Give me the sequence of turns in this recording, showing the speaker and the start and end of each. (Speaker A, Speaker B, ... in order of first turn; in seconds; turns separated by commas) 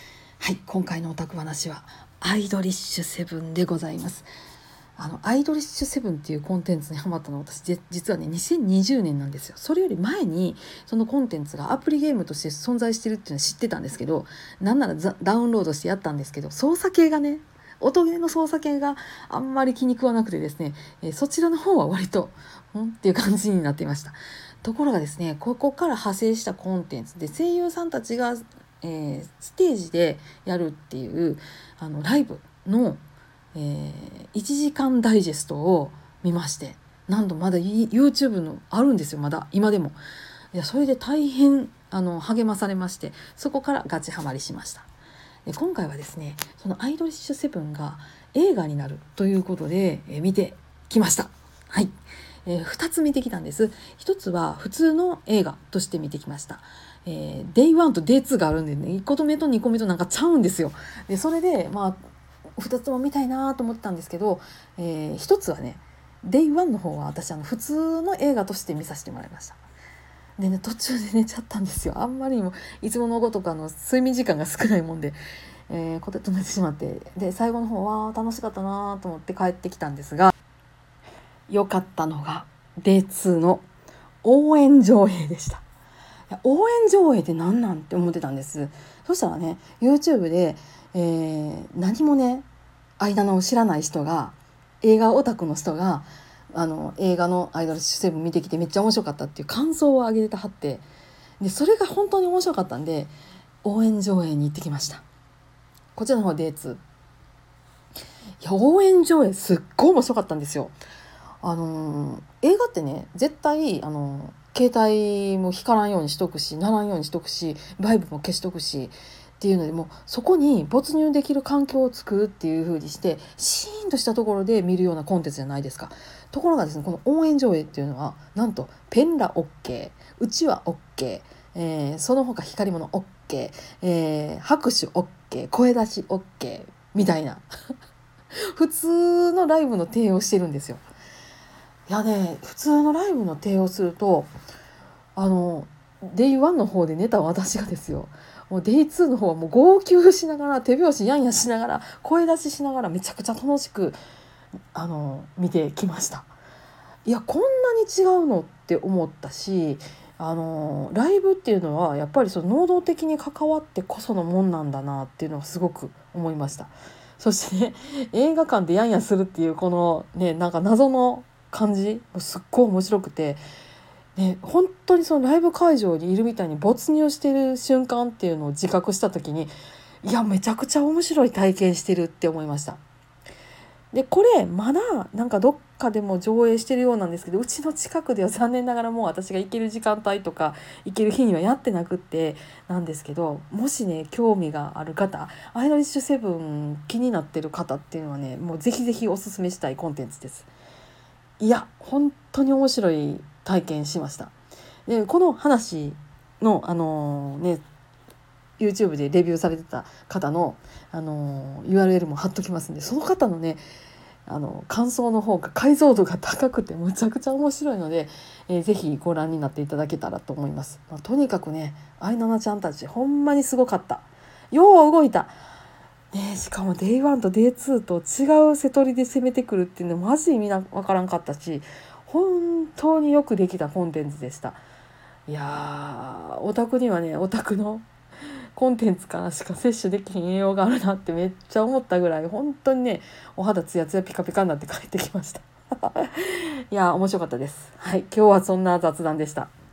Speaker A: 0.4-4.3, Speaker A: 5.0-33.0, Speaker A: 33.5-40.0, Speaker A: 40.5-44.9, Speaker A: 45.5-51.9, Speaker A: 52.5-62.0, Speaker A: 62.6-69.6, Speaker A: 70.4-75.2, Speaker A: 75.7-80.3, Speaker A: 81.5-83.7, Speaker A: 84.2-85.6, Speaker A: 86.3-92.5, Speaker A: 93.0-100.8, Speaker A: 101.4-103.1, Speaker A: 103.6-105.0, Speaker A: 106.0-106.8, Speaker A: 108.4-110.7, Speaker A: 111.4-137.4, Speaker A: 138.5-140.8, Speaker A: 141.9-144.3, Speaker A: 145.2-154.0, Speaker A: 154.7-156.3, Speaker A: 157.1-173.4, Speaker A: 174.2-182.8, Speaker A: 183.9-200.5, Speaker A: 201.4-204.3, Speaker A: 204.9-207.6, Speaker A: 208.6-213.6, Speaker A: 214.3-225.3, Speaker A: 226.1-234.6, Speaker A: 235.3-237.8, Speaker A: 238.6-249.5